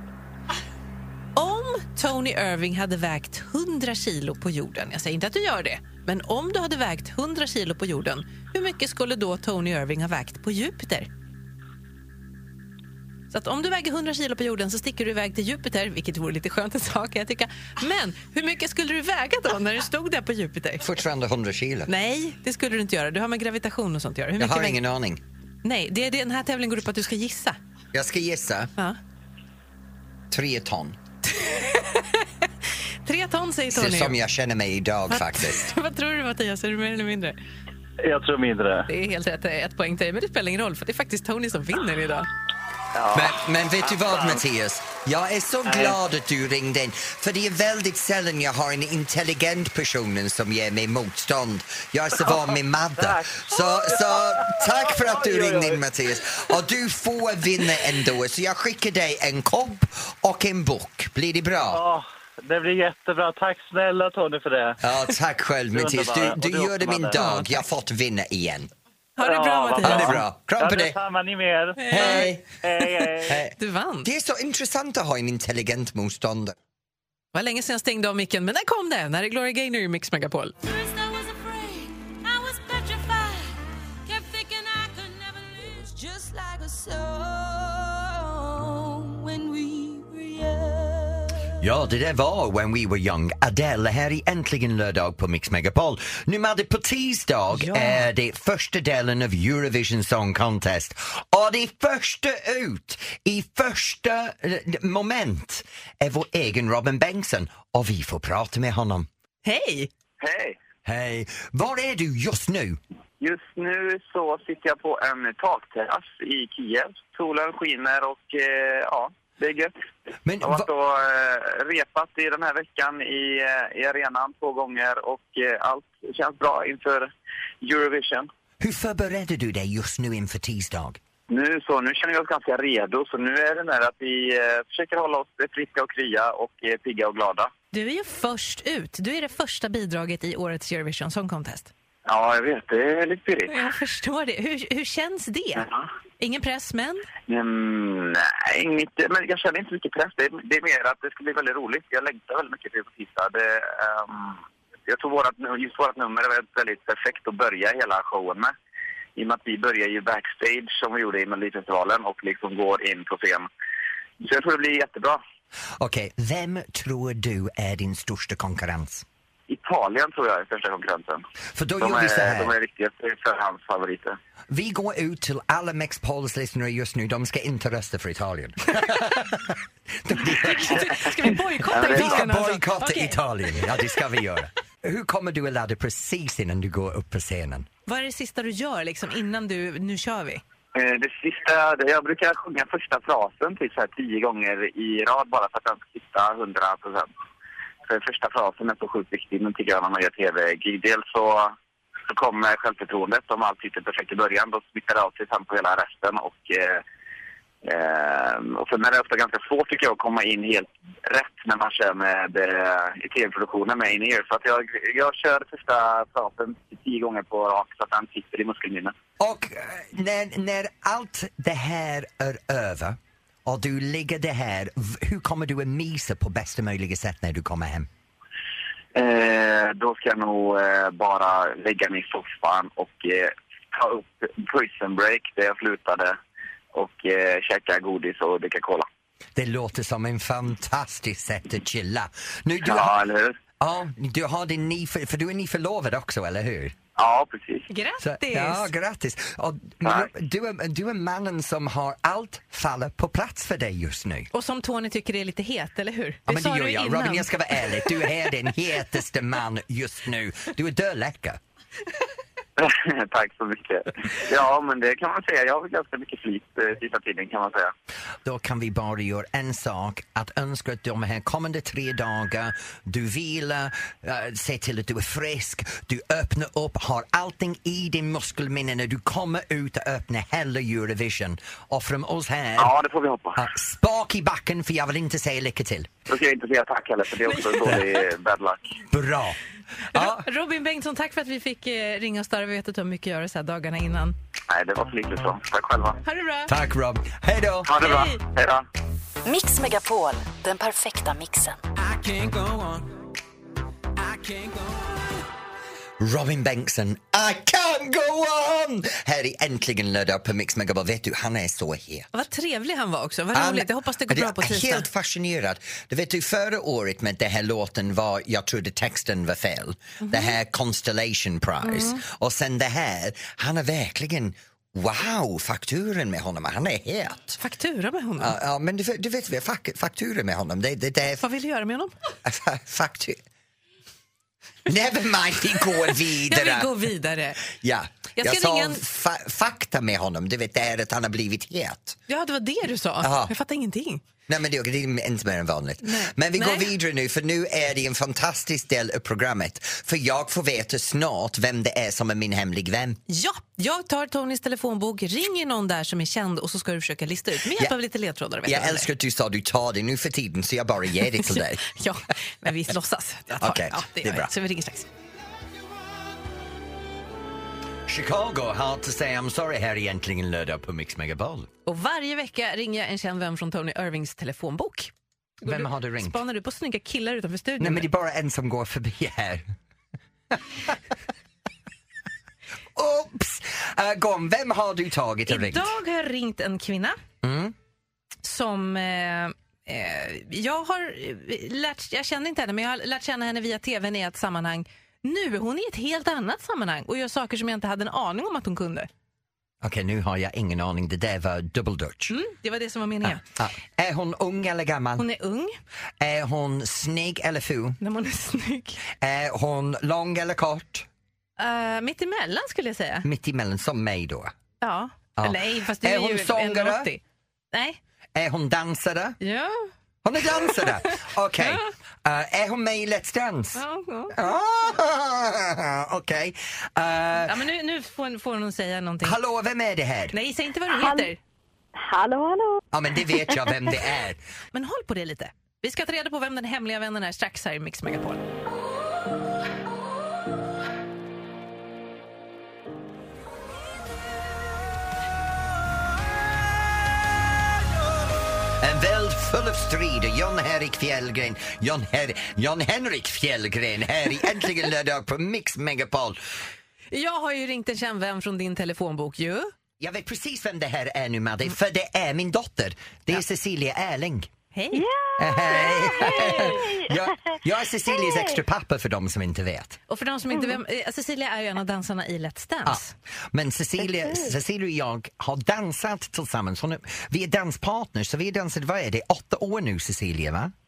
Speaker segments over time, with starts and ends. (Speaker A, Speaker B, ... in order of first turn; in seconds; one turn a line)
Speaker A: 1.4-11.1
Speaker A: 13.3-20.9
Speaker B: 20.8-21.9
Speaker A: 21.9-24.8
Speaker B: 24.4-25.2
Speaker A: 25.6-27.6
Speaker B: 27.9-28.7
Speaker B: 30.3-31.0
Speaker A: 31.3-32.5
Speaker A: 33.0-34.2
Speaker B: 33.7-35.7
Speaker A: 35.1-37.4
Speaker C: 38.0-38.9
Speaker A: 38.9-42.3
Speaker C: 43.0-43.3
Speaker B: 43.1-61.8
Speaker C: 43.9-44.3
Speaker C: 45.7-46.0
Speaker C: 52.2-52.5
Speaker C: 53.0-55.8
Speaker C: 61.7-64.8
Speaker B: 64.8-68.7
Speaker C: 65.7-67.4
Speaker A: 67.2-67.5
Speaker A: 69.2-70.2
Speaker C: 69.2-73.4
Speaker B: 69.8-71.0
Speaker A: 71.8-72.4
Speaker B: 71.9-72.5
Speaker B: 73.3-73.5
Speaker A: 73.5-74.1
Speaker B: 74.0-76.6
Speaker A: 77.3-80.5
Speaker D: 80.6-91.2
Speaker B: 91.6-109.1
Speaker A: 97.5-98.1
Speaker A: 109.5-109.9
Speaker E: 110.2-110.6
Speaker B: 110.8-112.8
Speaker E: 113.2-119.7
Speaker B: 120.3-120.7
Speaker E: 120.4-127.1
Speaker E: 127.6-128.3
Speaker B: 128.6-131.0
Speaker E: 131.3-137.5
Speaker A: 137.7-141.7
Speaker E: 142.1-143.5
Speaker A: 143.5-145.7
Speaker A: 146.2-147.1
Speaker E: 147.3-158.5
Speaker E: 159.2-163.5
Speaker E: 164.2-165.2
Speaker B: 165.8-169.1
Speaker E: 169.5-171.2
Speaker B: 171.6-172.5
Speaker E: 171.8-174.2
Speaker B: 174.5-187.7
Speaker A: 180.5-183.2
Speaker E: 181.7-182.2
Speaker A: 187.9-190.4
Speaker E: 190.8-197.1
Speaker E: 197.9-201.6
Speaker E: 202.1-206.8
Speaker E: 207.6-218.9
Speaker B: 219.2-227.9
Speaker E: 228.9-236.2
Speaker E: 236.7-238.9
Speaker B: 239.4-242.9
Speaker E: 242.6-243.4
Speaker B: 243.6-246.8
Speaker E: 247.0-247.7
Speaker A: 247.7-248.7
Speaker B: 248.0-254.3
Speaker E: 249.8-250.1
Speaker A: 254.3-257.9
Speaker B: 256.3-261.4
Speaker E: 262.6-267.7
Speaker B: 268.2-282.7
Speaker E: 282.6-283.4
Speaker B: 283.4-285.9
Speaker E: 286.1-288.8
Speaker A: 287.3-287.7
Speaker B: 288.9-289.4
Speaker A: 289.9-294.2
Speaker B: 289.9-290.2
Speaker E: 294.5-296.0
Speaker A: 296.1-296.5
Speaker B: 296.5-297.8
Speaker E: 297.7-298.6
Speaker A: 297.8-298.2
Speaker F: 299.2-301.6
Speaker D: 301.8-302.9
Speaker D: 304.0-305.1
Speaker B: 306.0-312.1
Speaker A: 312.1-314.9
Speaker B: 313.3-327.4
Speaker A: 320.0-320.4
Speaker A: 321.6-322.0
Speaker A: 327.4-328.4
Speaker B: 328.2-331.2
Speaker A: 331.2-331.9
Speaker B: 332.2-333.2
Speaker B: 334.7-336.9
Speaker A: 335.9-337.4
Speaker B: 337.4-342.0
Speaker A: 338.2-338.8
Speaker A: 342.1-344.1
Speaker B: 343.0-343.3
Speaker B: 344.3-353.0
Speaker A: 345.8-346.7
Speaker A: 353.1-358.9
Speaker B: 358.4-361.6
Speaker A: 361.1-364.9
Speaker B: 363.4-364.3
Speaker B: 367.9-371.5
Speaker A: 371.7-374.9
Speaker B: 375.4-376.2
Speaker A: 375.4-377.9
Speaker B: 377.6-379.5
Speaker B: 380.3-380.8
Speaker B: 382.8-385.8
Speaker A: 385.3-387.0
Speaker B: 387.2-387.6
Speaker A: 388.2-398.9
Speaker B: 399.6-402.2
Speaker A: 402.1-403.2
Speaker B: 403.1-405.1
Speaker A: 405.0-405.6
Speaker B: 406.0-407.8
Speaker A: 407.8-408.8
Speaker B: 409.0-410.9
Speaker A: 411.4-413.1
Speaker B: 413.0-414.3
Speaker A: 414.6-417.0
Speaker B: 415.2-416.9
Speaker A: 417.5-417.8
Speaker B: 418.1-419.2
Speaker A: 419.2-419.7
Speaker B: 420.0-427.4
Speaker A: 420.5-421.6
Speaker A: 423.6-424.2
Speaker A: 427.2-429.2
Speaker B: 429.0-430.2
Speaker A: 430.1-431.2
Speaker G: 431.8-432.6
Speaker B: 432.7-434.2
Speaker A: 434.5-438.2
Speaker B: 448.6-456.2
Speaker A: 456.9-459.5
Speaker B: 459.8-464.3
Speaker A: 464.5-464.9
Speaker G: 464.7-467.1
Speaker B: 465.2-469.8
Speaker A: 466.0-466.6
Speaker G: 467.9-468.4
Speaker A: 469.9-472.9
Speaker B: 472.6-480.5
Speaker G: 474.1-474.3